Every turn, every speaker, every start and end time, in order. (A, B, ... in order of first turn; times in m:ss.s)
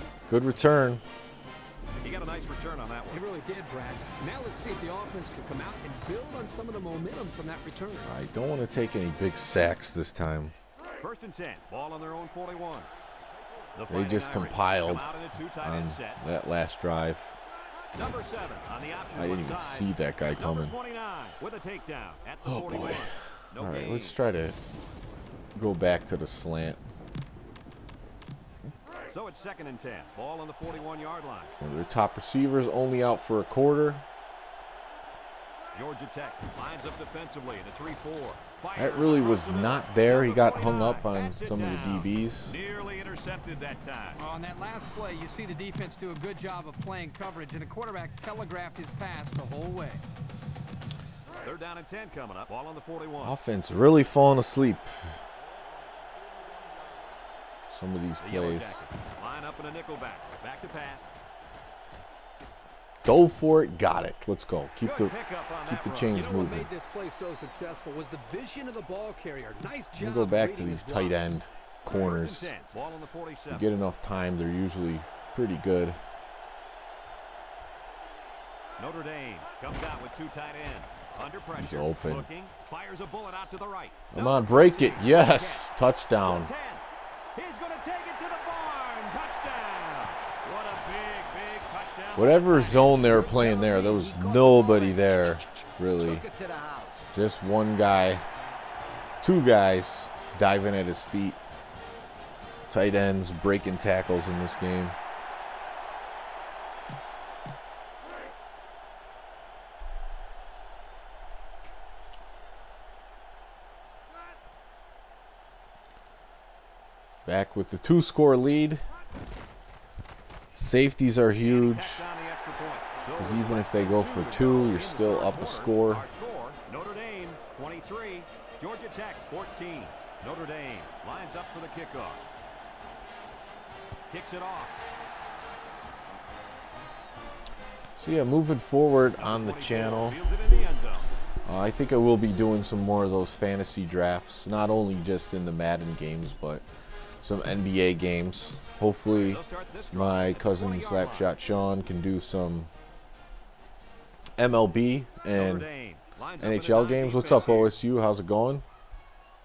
0:00.3-0:01.0 A
0:02.0-0:03.2 B
0:03.1-0:08.1 C
0:08.0-0:10.5 A
0:11.0-0:12.9 B
0:13.8-0:16.2 B
0:13.9-0:17.4 A
0:17.9-0:24.2 B
0:19.2-0:20.8 A
0:22.4-0:24.6 A
0:25.6-0:26.8 A
0:29.1-0:31.5 B
0:31.6-0:34.0 A
0:35.7-0:44.2 B
0:38.8-0:42.6 A
0:44.2-0:50.0 C
0:51.4-0:53.4 B
0:53.2-0:55.2 A
0:57.7-0:58.9 A
0:58.2-1:01.1 B
1:03.0-1:05.1 A
1:04.8-1:06.2 B
1:05.7-1:06.7 A
1:06.1-1:11.4 C
1:10.0-1:12.5 A
1:11.9-1:13.7 B
1:13.5-1:16.0 A
1:18.8-1:26.8 B
1:21.6-1:22.3 A
1:24.1-1:26.5 A
1:27.4-1:33.0 B
1:32.2-1:36.2 A
1:33.0-1:37.1 D
1:37.1-1:38.3 A
1:39.2-1:41.4 A
1:42.7-1:45.0 A
1:57.3-1:58.8 A
2:00.6-2:02.1 A
2:01.4-2:12.2 B
2:03.2-2:06.0 A
2:14.1-2:14.8 B
2:18.0-2:20.2 A
2:19.2-2:21.1 B
2:21.4-2:26.6 A
2:27.2-2:32.7 A
2:29.2-2:31.3 B
2:34.4-2:35.7 A
2:35.3-2:37.8 B
2:36.4-2:38.6 A